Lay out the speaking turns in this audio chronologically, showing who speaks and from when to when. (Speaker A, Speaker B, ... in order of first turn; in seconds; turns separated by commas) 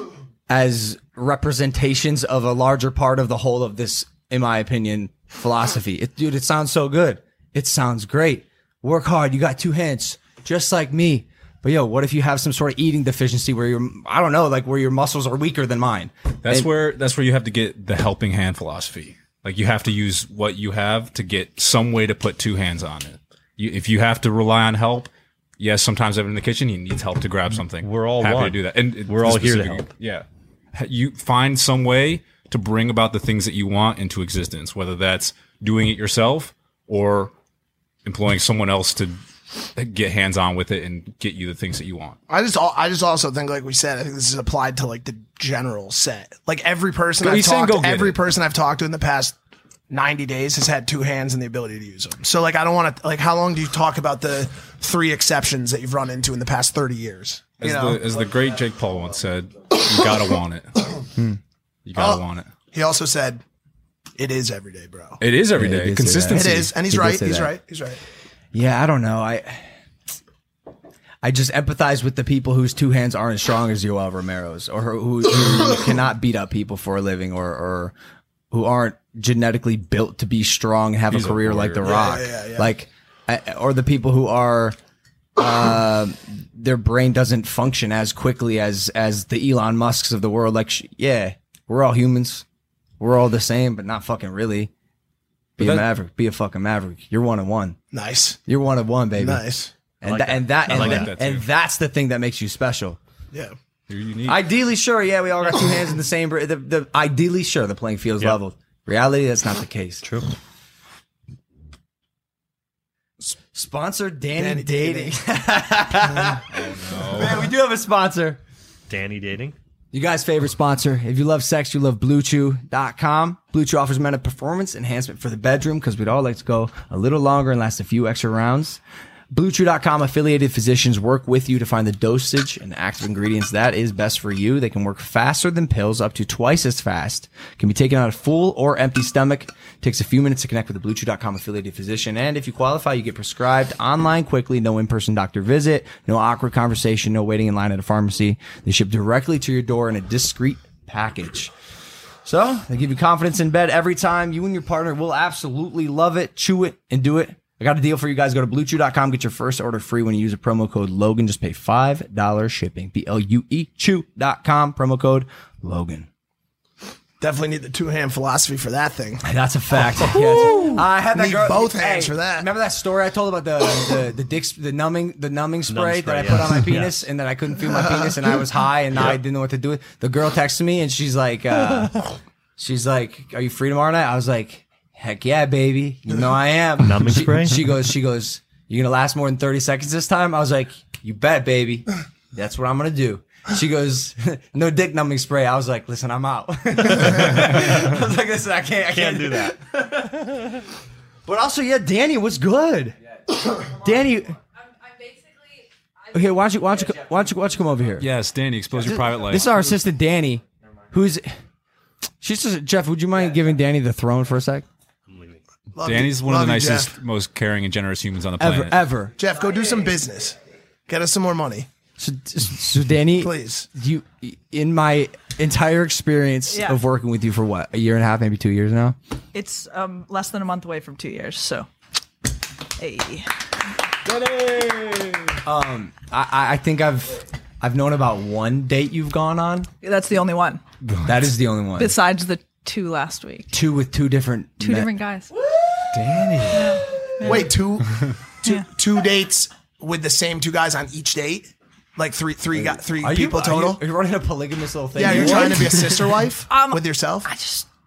Speaker A: 0.5-16.7, Speaker B: 16.4-37.3, Speaker C: 27.8-29.9, Speaker B: 38.0-39.2, Speaker B: 39.7-42.2, Speaker D: 42.3-49.4, Speaker B: 47.2-48.2, Speaker D: 49.9-58.0, Speaker B: 57.6-60.7, Speaker B: 61.8-62.5, Speaker D: 62.0-63.4, Speaker D: 64.2-65.2, Speaker B: 65.2-66.7, Speaker A: 65.5-67.5, Speaker D: 66.3-68.0, Speaker A: 68.5-69.7, Speaker A: 71.2-77.9, Speaker A: 78.5-84.8, Speaker B: 81.1-81.8, Speaker D: 81.8-82.7, Speaker A: 85.4-92.4, Speaker A: 93.0-94.7, Speaker A: 95.6-97.8, Speaker D: 97.9-98.4, Speaker A: 98.5-99.4, Speaker D: 99.2-99.7, Speaker A: 100.0-103.0, Speaker C: 100.0-101.1, Speaker B: 100.7-101.4, Speaker B: 103.9-104.4, Speaker A: 104.2-110.0, Speaker A: 113.3-116.4, Speaker D: 114.4-115.1, Speaker B: 116.5-117.4, Speaker A: 117.1-118.4, Speaker C: 118.9-119.5, Speaker A: 119.9-151.5, Speaker A: 152.2-166.1, Speaker D: 167.2-169.2, Speaker A: 169.2-182.1, Speaker E: 170.1-170.8, Speaker D: 171.1-172.5, Speaker C: 175.7-177.0, Speaker A: 182.6-200.6, Speaker C: 186.8-187.8, Speaker C: 198.9-199.5, Speaker A: 201.2-203.0, Speaker A: 203.6-204.4, Speaker A: 206.1-208.1, Speaker B: 208.0-209.5, Speaker A: 208.8-211.4, Speaker A: 212.2-214.6, Speaker C: 215.1-215.4, Speaker D: 215.7-216.9, Speaker B: 215.8-218.8, Speaker A: 218.4-219.1, Speaker D: 219.2-220.4, Speaker D: 220.9-221.7, Speaker A: 222.0-229.0, Speaker D: 223.2-223.7, Speaker E: 226.5-226.8, Speaker E: 229.3-231.7, Speaker E: 232.8-233.3, Speaker A: 234.1-239.7, Speaker E: 239.8-240.6, Speaker B: 240.8-241.1, Speaker A: 241.0-241.9, Speaker E: 241.8-243.5, Speaker A: 243.5-244.9, Speaker E: 244.6-245.3, Speaker A: 245.9-246.6, Speaker B: 245.9-246.6, Speaker E: 246.5-247.5, Speaker D: 247.2-253.8, Speaker A: 252.6-255.9, Speaker D: 254.9-257.3, Speaker E: 255.0-255.7, Speaker E: 256.5-257.7